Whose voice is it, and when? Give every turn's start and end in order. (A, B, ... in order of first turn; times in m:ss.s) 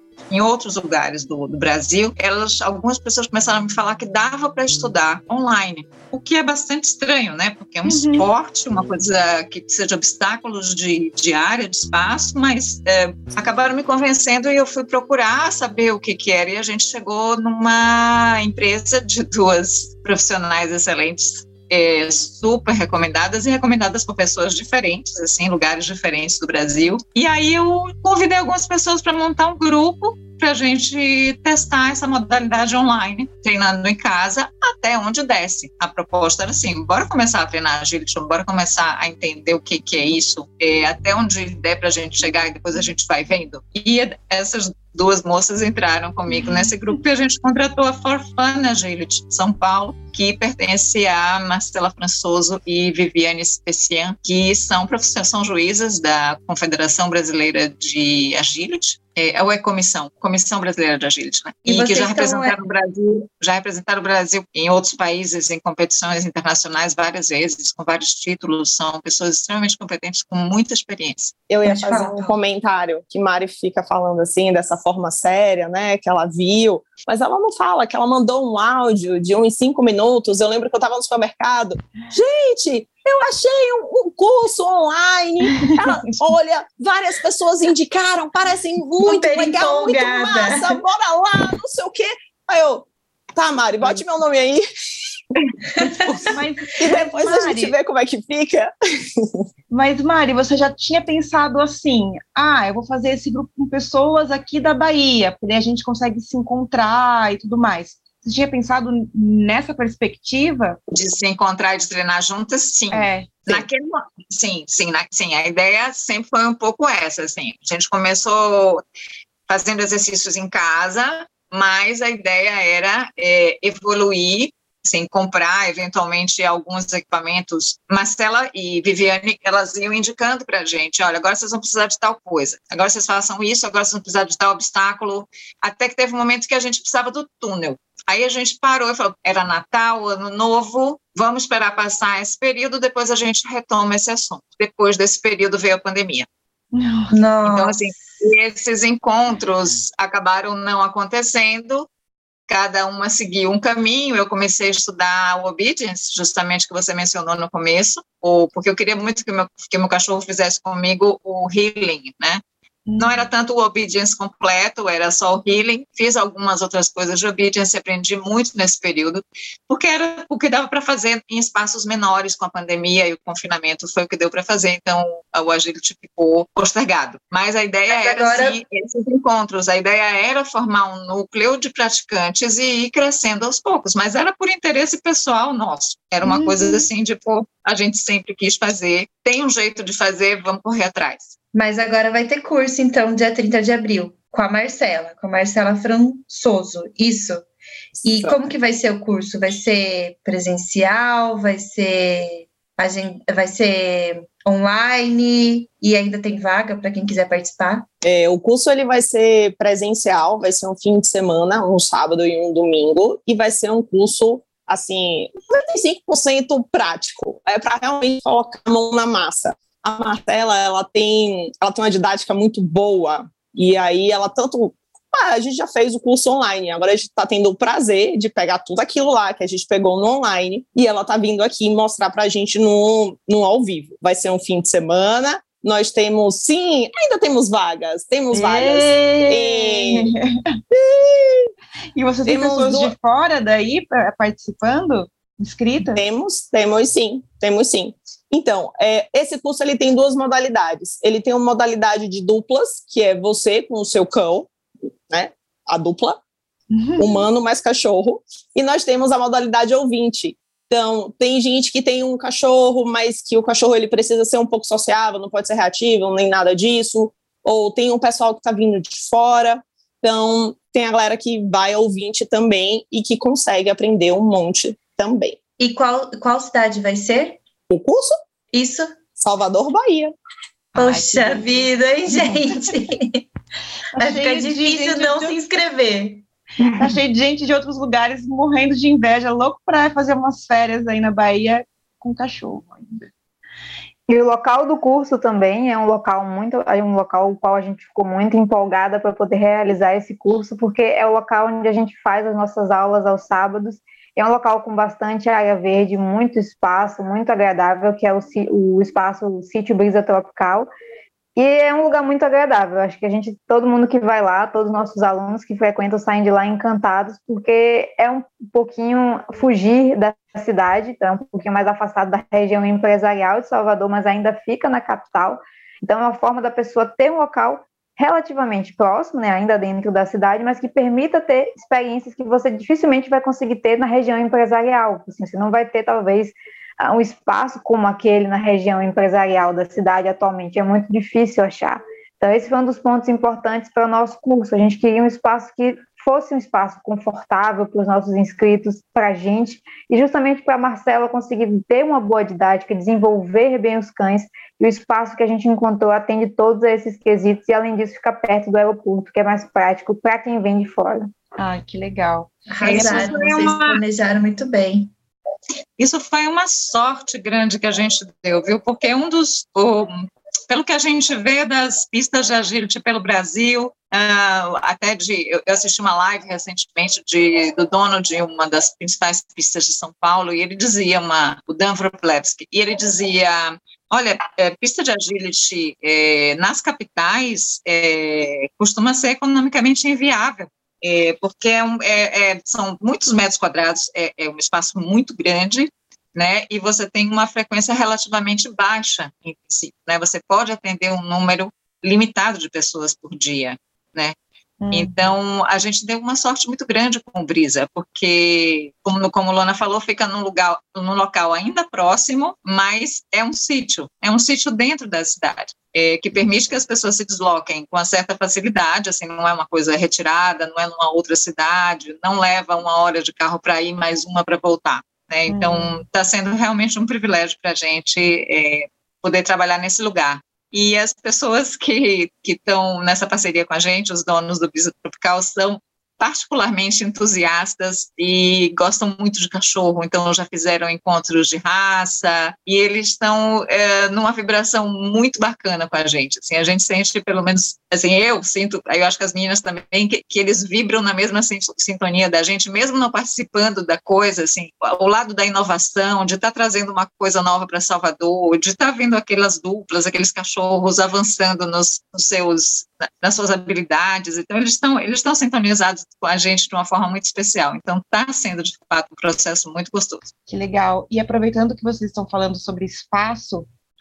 0:00.3-1:11.4 A
0:07.8-0:08.3 B
0:46.3-0:46.7 B
1:01.6-1:02.6 C
1:11.5-1:34.6 D
1:11.6-1:12.4 C
1:29.0-1:30.8 C
1:35.8-1:36.1 C
1:36.3-1:37.7 B
1:36.8-1:39.4 D
1:39.7-1:50.8 B
1:50.9-1:58.8 A
1:52.9-1:53.6 B
1:59.5-2:26.3 A
2:26.7-2:27.1 B
2:27.1-2:28.0 C
2:27.4-2:31.9 A
2:32.5-2:42.4 A
2:42.8-2:43.3 B
2:43.0-3:11.3 A
2:57.9-2:58.6 C
3:06.2-3:06.9 B
3:11.5-3:17.4 C
3:18.0-3:18.4 D
3:18.0-3:27.8 C
3:28.0-4:00.1 D
3:58.3-4:00.6 B
4:00.7-4:01.5 D
4:01.9-4:06.0 B
4:02.2-4:02.9 D
4:05.8-4:14.5 D
4:15.1-4:16.2 D
4:16.7-4:17.2 B
4:17.0-4:35.4 D
4:35.6-4:37.4 C
4:37.7-4:38.1 D
4:38.5-4:39.0 C
4:39.2-4:40.1 D
4:40.7-4:41.7 B
4:40.8-4:43.3 C
4:43.9-4:45.4 B
4:44.0-4:46.2 C
4:46.8-4:53.1 B
4:54.1-5:10.7 E
5:11.4-6:01.1 E
6:01.4-6:03.8 B
6:02.5-6:04.9 C
6:02.6-6:03.5 A
6:05.8-6:44.1 A
6:44.6-6:45.1 B
6:44.7-7:50.1 A
7:05.3-7:05.8 B
7:50.3-7:53.5 B